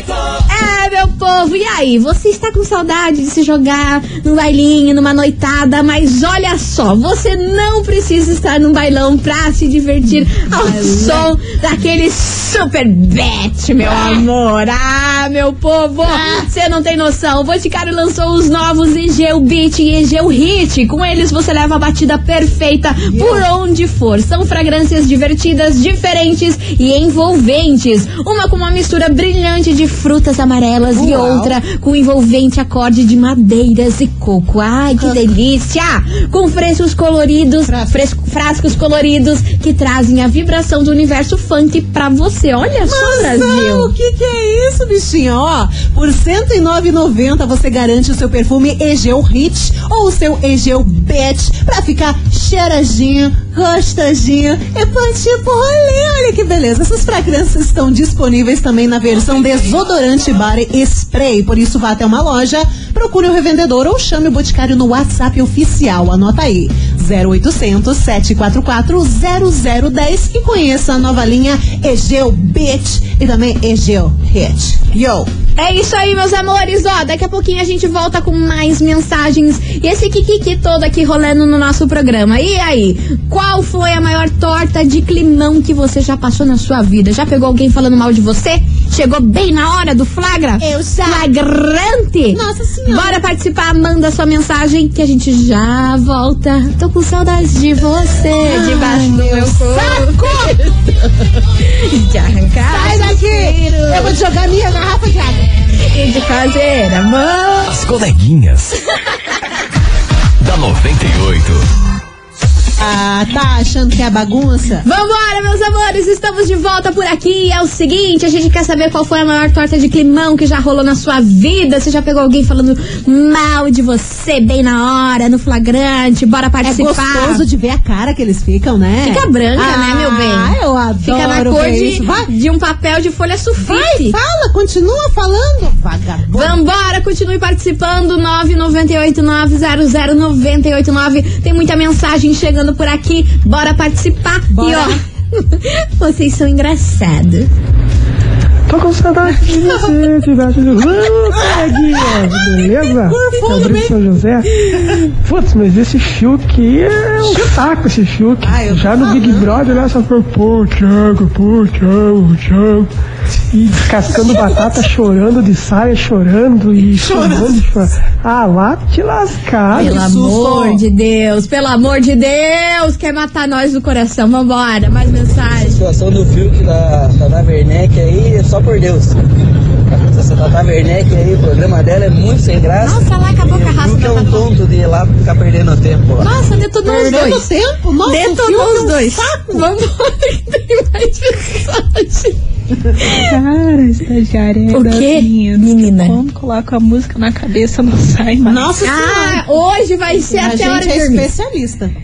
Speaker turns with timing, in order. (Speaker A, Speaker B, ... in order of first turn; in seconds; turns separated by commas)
Speaker A: 0.5-43.9, Speaker B: 10.5-11.3, Speaker B: 16.0-16.5, Speaker B: 23.1-23.5, Speaker B: 30.9-31.6, Speaker B: 35.0-35.3, Speaker B: 37.6-38.0, Speaker B: 42.8-75.3, Speaker A: 75.6-100.3, Speaker B: 90.6-91.3, Speaker B: 92.3-93.2, Speaker B: 98.4-100.7, Speaker A: 101.6-104.2, Speaker B: 102.7-105.5, Speaker A: 105.8-107.7, Speaker C: 107.7-108.8, Speaker C: 110.4-111.6, Speaker B: 112.8-114.8, Speaker A: 114.8-127.4, Speaker B: 126.6-132.3, Speaker A: 129.0-134.2, Speaker B: 133.6-136.6, Speaker A: 136.3-147.5, Speaker B: 144.5-145.0, Speaker D: 148.7-162.9, Speaker B: 149.3-149.9, Speaker B: 151.4-152.3, Speaker B: 153.0-154.0, Speaker B: 157.2-157.6, Speaker B: 158.4-159.5, Speaker D: 163.5-169.9, Speaker B: 167.0-167.6, Speaker B: 169.7-170.8, Speaker A: 169.7-175.8, Speaker E: 175.6-179.2, Speaker E: 179.9-186.3, Speaker A: 182.8-184.5, Speaker A: 186.2-187.4, Speaker B: 186.8-189.7, Speaker A: 188.0-192.3, Speaker A: 193.0-193.3, Speaker F: 193.3-198.7, Speaker A: 194.7-196.2, Speaker B: 198.5-199.4, Speaker A: 198.8-201.3, Speaker B: 200.3-201.9